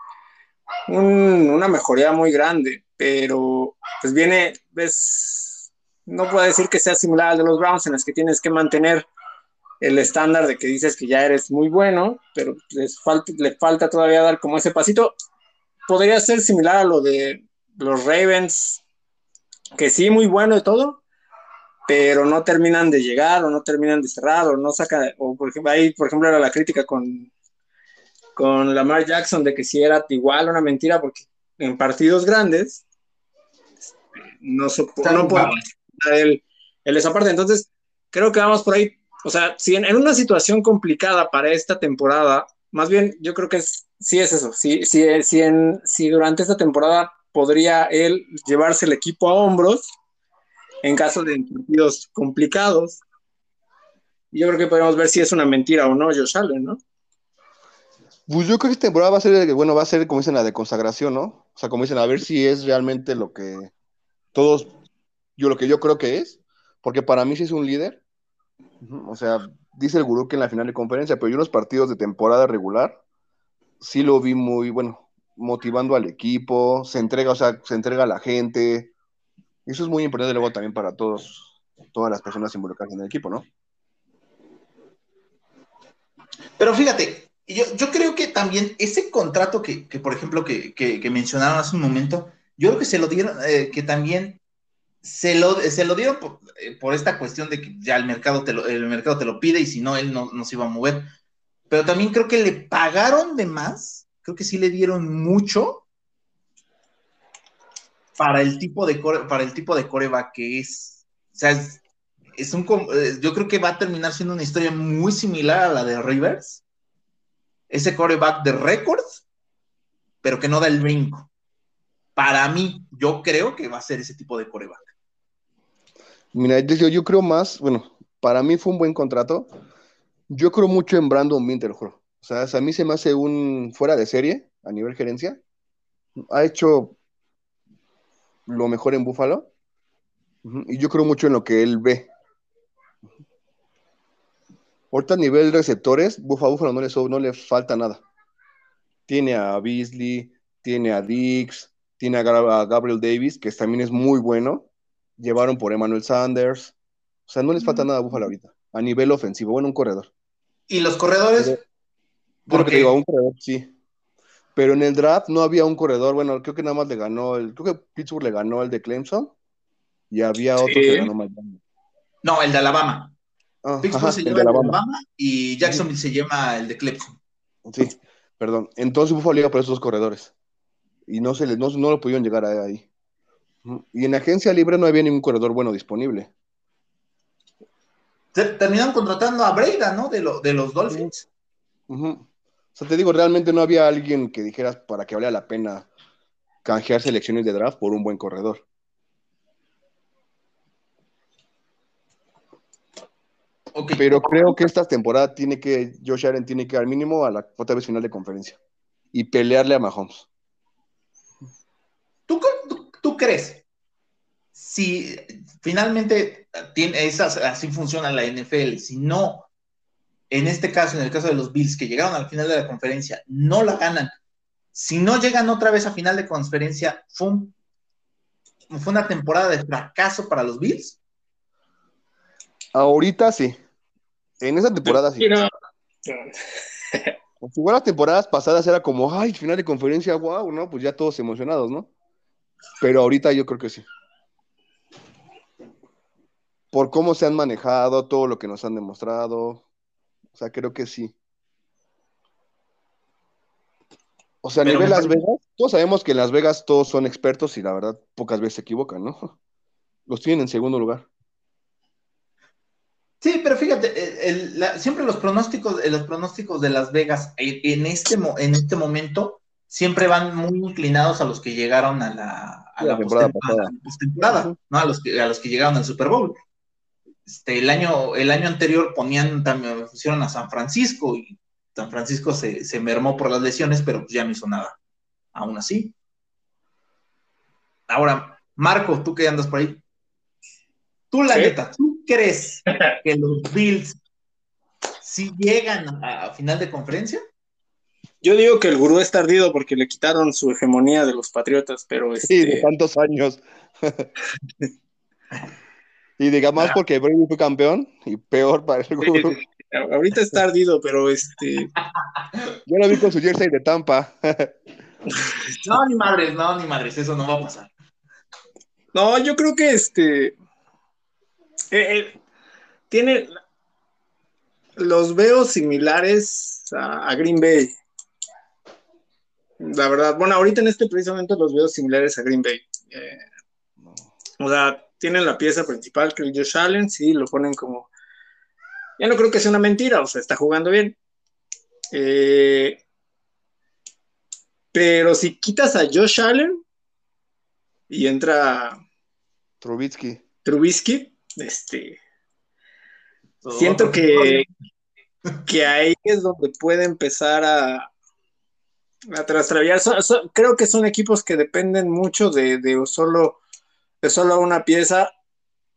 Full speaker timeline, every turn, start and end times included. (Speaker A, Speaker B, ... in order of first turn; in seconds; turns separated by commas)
Speaker A: 0.9-9.1, Speaker A: 9.8-15.1, Speaker A: 15.9-18.8, Speaker A: 19.8-21.0, Speaker A: 21.9-27.3, Speaker A: 28.4-32.8, Speaker A: 34.4-49.9, Speaker B: 35.0-35.6, Speaker A: 50.8-53.0, Speaker A: 54.3-56.8, Speaker C: 58.3-63.7, Speaker C: 64.3-64.7, Speaker C: 65.4-68.0, Speaker C: 68.8-73.0, Speaker C: 73.8-78.9, Speaker C: 79.7-83.4, Speaker B: 86.6-94.4, Speaker B: 95.0-101.1, Speaker B: 101.7-105.8, Speaker B: 108.2-111.8, Speaker B: 112.4-116.6, Speaker B: 117.7-119.2, Speaker B: 120.2-121.3, Speaker B: 122.2-124.9, Speaker C: 126.3-129.5, Speaker C: 130.3-135.4, Speaker C: 136.2-136.9, Speaker C: 138.5-139.5, Speaker C: 140.4-142.1, Speaker C: 144.9-148.0, Speaker C: 149.1-154.7, Speaker C: 155.2-156.7, Speaker C: 157.3-160.1, Speaker B: 160.7-161.6, Speaker B: 162.5-162.9, Speaker C: 162.5-163.7, Speaker C: 164.5-169.3, Speaker C: 170.1-171.6, Speaker A: 170.6-171.1, Speaker B: 172.2-173.1, Speaker C: 173.6-174.8, Speaker B: 173.8-177.2, Speaker C: 177.7-180.3, Speaker C: 181.1-182.9, Speaker C: 183.6-186.3, Speaker B: 188.3-191.2, Speaker C: 191.9-195.9, Speaker C: 196.6-198.6, Speaker B: 203.7-204.6, Speaker C: 203.9-208.6, Speaker C: 209.1-210.3, Speaker B: 212.3-213.6, Speaker B: 214.6-219.5, Speaker B: 220.3-224.2, Speaker B: 224.7-227.5, Speaker B: 228.7-231.0, Speaker C: 232.7-233.6, Speaker C: 234.4-235.3, Speaker A: 234.9-235.5, Speaker A: 236.1-236.3, Speaker C: 237.4-241.9, Speaker C: 242.8-243.9, Speaker C: 246.7-249.6, Speaker C: 250.3-251.1, Speaker C: 254.4-259.3, Speaker B: 254.6-255.2, Speaker C: 260.1-261.1, Speaker B: 263.2-276.4, Speaker C: 272.8-273.7, Speaker C: 274.3-274.6, Speaker B: 277.2-284.8, Speaker B: 285.3-285.9, Speaker B: 287.9-289.8, Speaker B: 291.1-294.0, Speaker A: 291.3-291.5, Speaker B: 295.0-297.2, Speaker A: 298.2-302.7, Speaker C: 302.2-304.1, Speaker C: 306.2-309.3, Speaker A: 309.0-311.7, Speaker C: 312.7-314.5, Speaker B: 315.6-317.7, Speaker A: 318.9-320.3, Speaker A: 321.7-322.2, Speaker A: 322.9-323.4, Speaker A: 324.8-327.7, Speaker A: 329.6-333.2, Speaker A: 334.4-337.9, Speaker A: 339.0-340.9, Speaker A: 341.9-342.8, Speaker A: 344.7-346.6, Speaker A: 347.9-348.8, Speaker C: 349.6-350.2, Speaker A: 350.4-352.0, Speaker B: 353.4-354.4, Speaker A: 353.5-354.5, Speaker A: 355.4-357.9, Speaker A: 359.1-363.4, Speaker A: 364.0-365.1